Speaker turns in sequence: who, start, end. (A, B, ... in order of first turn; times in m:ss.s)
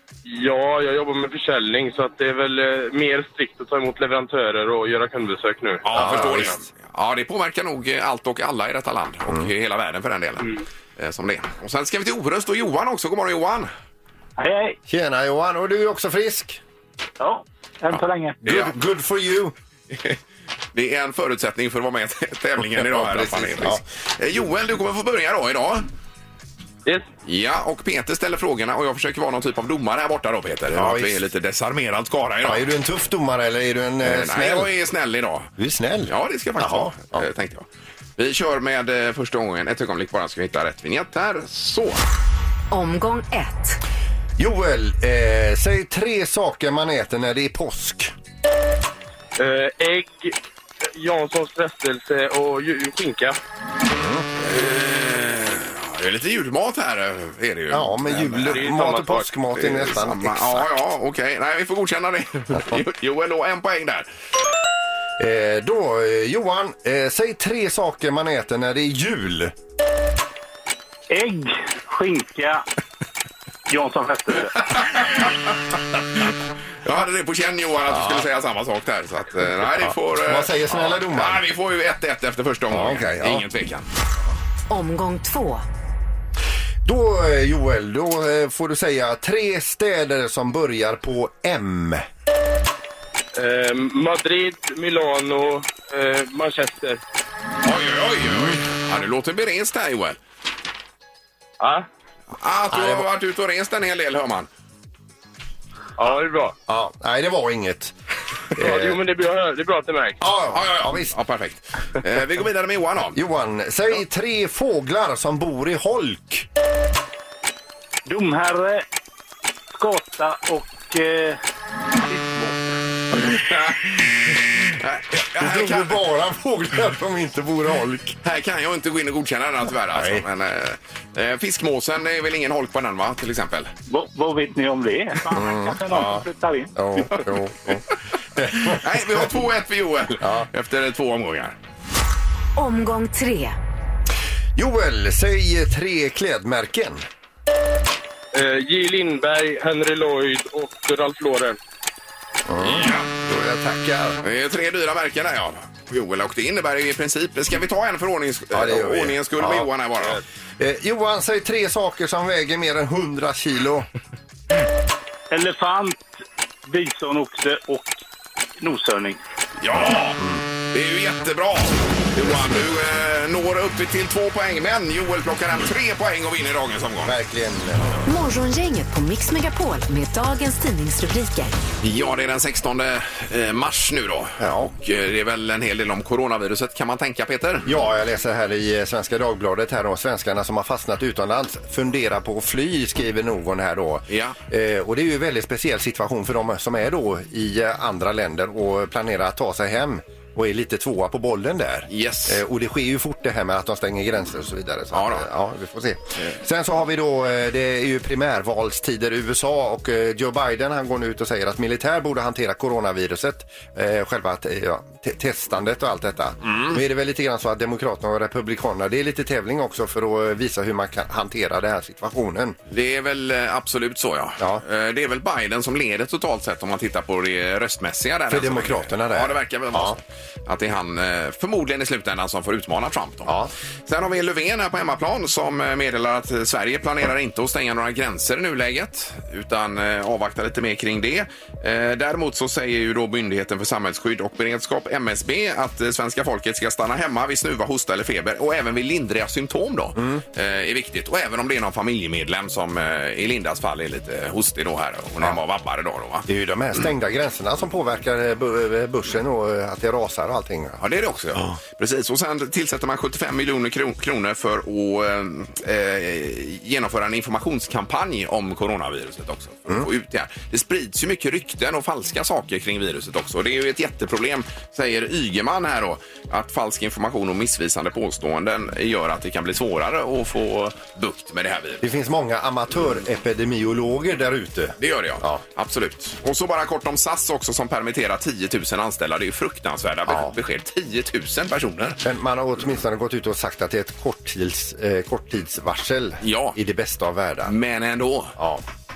0:00.2-0:06.4 A
0:05.8-0:13.7 B
0:05.9-0:06.6 C
0:14.4-0:14.8 D
0:14.9-0:16.6 C
0:17.2-0:18.4 D
0:18.4-0:19.5 C
0:18.4-0:18.7 B
0:20.7-0:25.9 B
0:22.8-0:23.8 C
0:27.2-0:32.6 B
0:30.7-0:31.2 C
0:32.4-0:34.7 C
0:34.0-0:35.5 B
0:35.6-0:37.3 C
0:36.1-0:37.6 B
0:38.2-0:42.0 B
0:42.7-0:43.8 E
0:44.4-0:48.1 C
0:49.4-0:50.4 A
0:50.9-0:53.4 A
0:53.8-0:54.3 C
0:54.4-0:58.6 B
0:57.7-1:00.7 C
0:58.5-0:59.3 A
0:59.5-1:04.0 B
1:02.5-1:02.8 C
1:05.2-1:09.5 C
1:11.1-1:12.6 D
1:13.7-1:14.5 D
1:14.7-1:15.3 B
1:16.8-1:23.9 B
1:17.9-1:18.2 C
1:19.8-1:21.4 C
1:22.7-1:23.4 C
1:24.7-1:25.6 E
1:26.8-1:32.0 C
1:33.4-1:37.0 A
1:37.6-1:40.2 B
1:38.3-1:38.5 C
1:41.6-1:41.8 A
1:42.4-1:44.5 B
1:42.7-1:43.0 C
1:46.0-1:46.5 A
1:46.7-1:47.9 C
1:48.6-1:49.0 C
1:48.6-1:50.2 A
1:50.2-1:51.1 C
1:50.5-1:53.2 B
1:53.2-1:56.4 C
1:58.0-1:58.8 D
1:59.7-2:01.4 D
2:02.0-2:02.7 D
2:03.1-2:06.0 B
2:05.4-2:08.2 C
2:08.2-2:13.7 B
2:09.9-2:10.2 C
2:13.9-2:16.7 D
2:15.3-2:19.3 C
2:18.6-2:21.5 B
2:20.2-2:20.5 C
2:22.6-2:23.6 E
2:24.6-2:27.0 C
2:28.3-2:31.6 A
2:32.5-2:34.2 C
2:32.6-2:33.1 B
2:34.2-2:40.2 B
2:38.5-2:39.7 C
2:40.6-2:43.9 C
2:45.3-2:46.1 D
2:46.6-2:47.9 D
2:48.6-2:49.2 D
2:49.6-2:50.2 B
2:49.8-2:50.4 C
2:50.7-2:57.1 B
2:57.0-2:58.0 C
2:58.0-3:01.6 E
3:01.8-3:07.7 B
3:04.4-3:04.7 C
3:07.6-3:42.6 C
3:14.1-3:14.4 B
3:21.9-3:22.4 B
3:24.9-3:25.2 B
3:42.7-4:16.3 B
3:48.3-3:50.0 C
3:53.2-3:53.5 C
4:16.3-4:20.8 C
4:20.8-4:41.8 B
4:41.8-4:45.4 C
4:44.8-4:52.0 B
4:50.1-4:50.3 C
4:52.0-4:57.5 C
4:56.2-4:56.6 B
4:57.4-4:58.4 B
4:58.4-4:58.6 C